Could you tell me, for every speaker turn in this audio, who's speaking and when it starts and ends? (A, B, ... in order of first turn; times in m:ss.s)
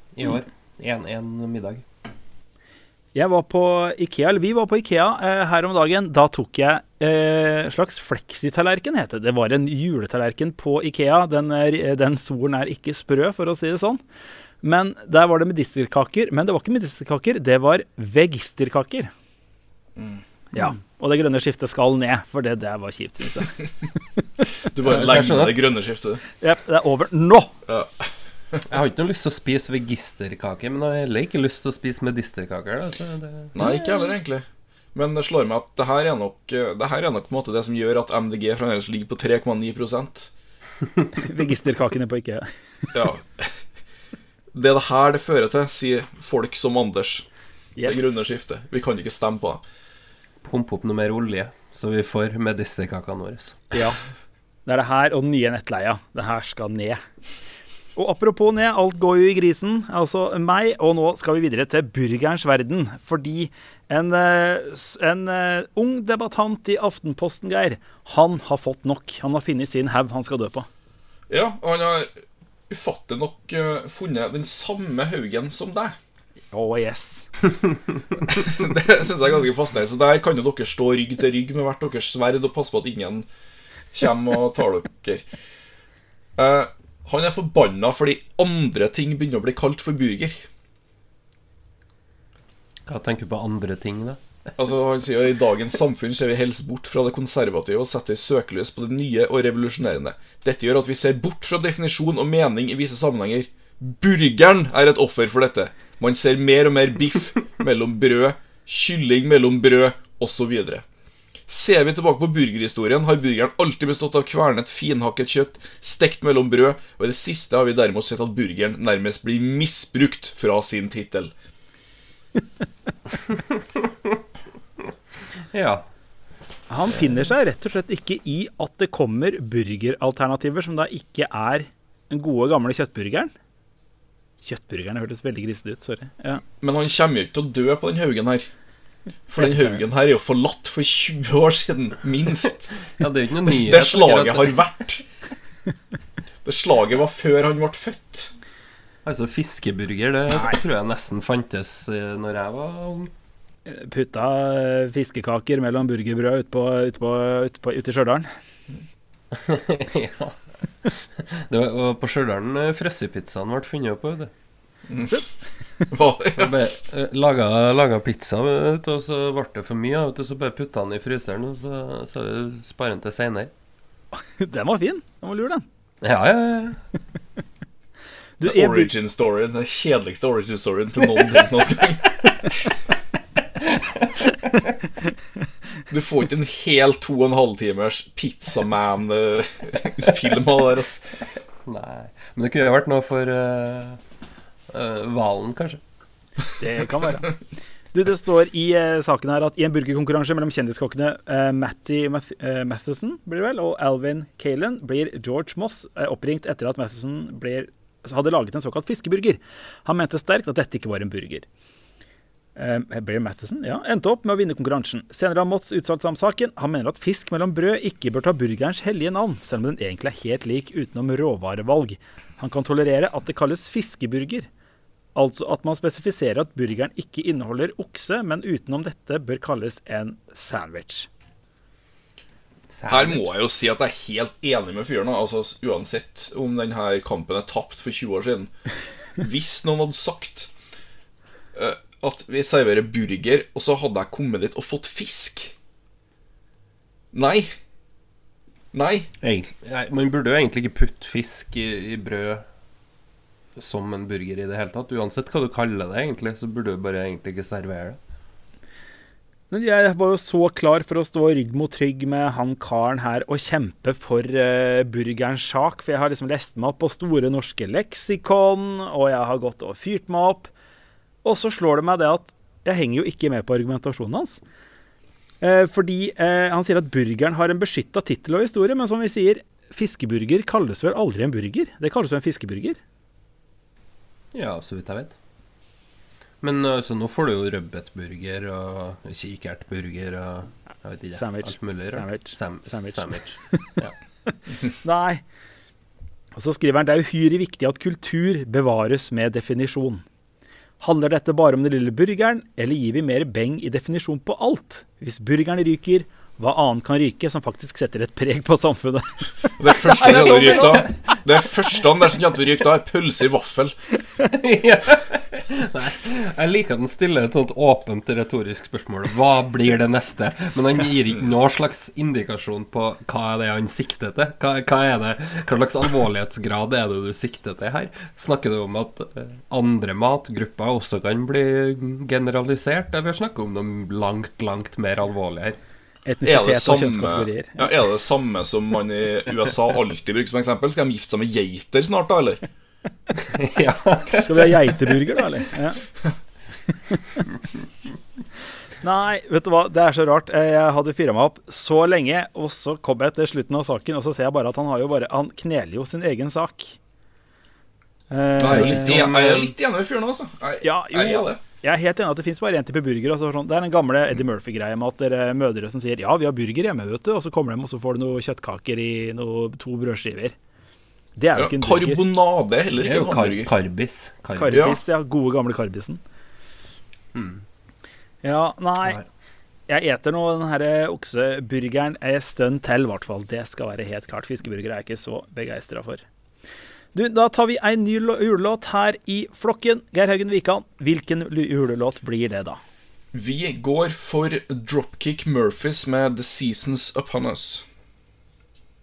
0:00.1-0:01.8 A
0:03.1-0:14.0 B
0:14.6-0:19.1 B
0:20.5-0:23.6 B
0:24.6-0:26.2 C
0:24.8-0:25.6 A
0:26.4-0:27.5 B
0:27.6-0:28.6 C
0:28.7-0:33.7 A
0:33.5-0:40.3 C
0:33.6-0:34.0 B
0:41.2-0:42.9 B
0:42.9-0:43.5 C
0:44.5-0:47.2 C
0:47.8-0:48.1 B
0:47.8-0:49.6 C
0:50.4-0:53.6 A
0:53.7-0:54.0 B
0:54.6-0:57.0 B
0:58.0-1:10.7 B
1:11.3-1:12.1 C
1:12.7-1:16.0 C
1:16.5-1:17.3 B
1:18.3-1:23.3 C
1:23.9-1:25.2 C
1:26.4-1:30.5 C
1:32.9-1:34.2 A
1:34.6-1:50.8 C
1:51.5-2:01.3 C
2:03.3-2:04.2 A
2:05.4-2:05.9 A
2:06.7-2:13.3 B
2:14.4-2:16.4 B
2:16.6-2:18.5 C
2:19.3-2:22.8 C
2:22.9-2:24.6 A
2:23.4-2:25.0 C
2:26.4-2:28.3 C
2:29.0-2:33.1 A
2:33.6-2:38.3 B
2:39.3-2:44.3 A
2:44.9-2:45.2 C
2:45.9-2:46.6 C
2:46.4-2:53.5 A
2:54.1-2:55.6 B
2:56.0-2:56.8 A
2:58.4-2:58.9 B
2:58.4-3:02.7 C
3:03.6-3:04.4 A
3:05.9-3:11.2 C
3:11.6-3:14.0 A
3:14.7-3:15.8 A
3:16.6-3:17.3 B
3:17.9-3:31.5 B
3:32.6-3:44.5 B
3:45.1-3:51.1 B
3:52.7-3:53.3 A
3:52.9-3:58.5 C
3:59.2-4:00.5 C
4:01.5-4:05.5 C
4:07.1-4:07.5 C
4:08.7-4:09.1 C
4:09.2-4:12.5 A
4:13.6-4:18.0 A
4:19.5-4:30.5 B
4:31.2-4:34.4 B
4:35.4-4:42.8 B
4:44.3-4:45.2 A
4:46.4-4:53.9 A
4:51.1-4:55.2 B
4:56.3-5:00.0 B
5:00.8-5:11.2 B
5:09.6-5:13.8 C
5:14.2-5:35.6 A
5:36.0-5:37.7 B
5:36.2-5:42.5 C
5:43.2-5:44.9 A
5:44.2-5:45.8 B
5:46.9-5:47.2 B
5:48.8-5:56.8 B
5:58.1-5:59.1 B
5:58.4-6:01.4 C
5:58.5-5:59.5 A
6:00.6-6:10.3 B
6:11.2-6:12.0 B
6:11.4-6:13.5 C
6:12.8-6:14.7 A
6:14.4-6:16.0 B
6:14.5-6:14.8 C
6:17.2-6:17.4 A
6:18.2-6:19.0 B
6:19.7-6:26.0 B
6:26.9-6:32.6 B
6:33.1-6:37.6 C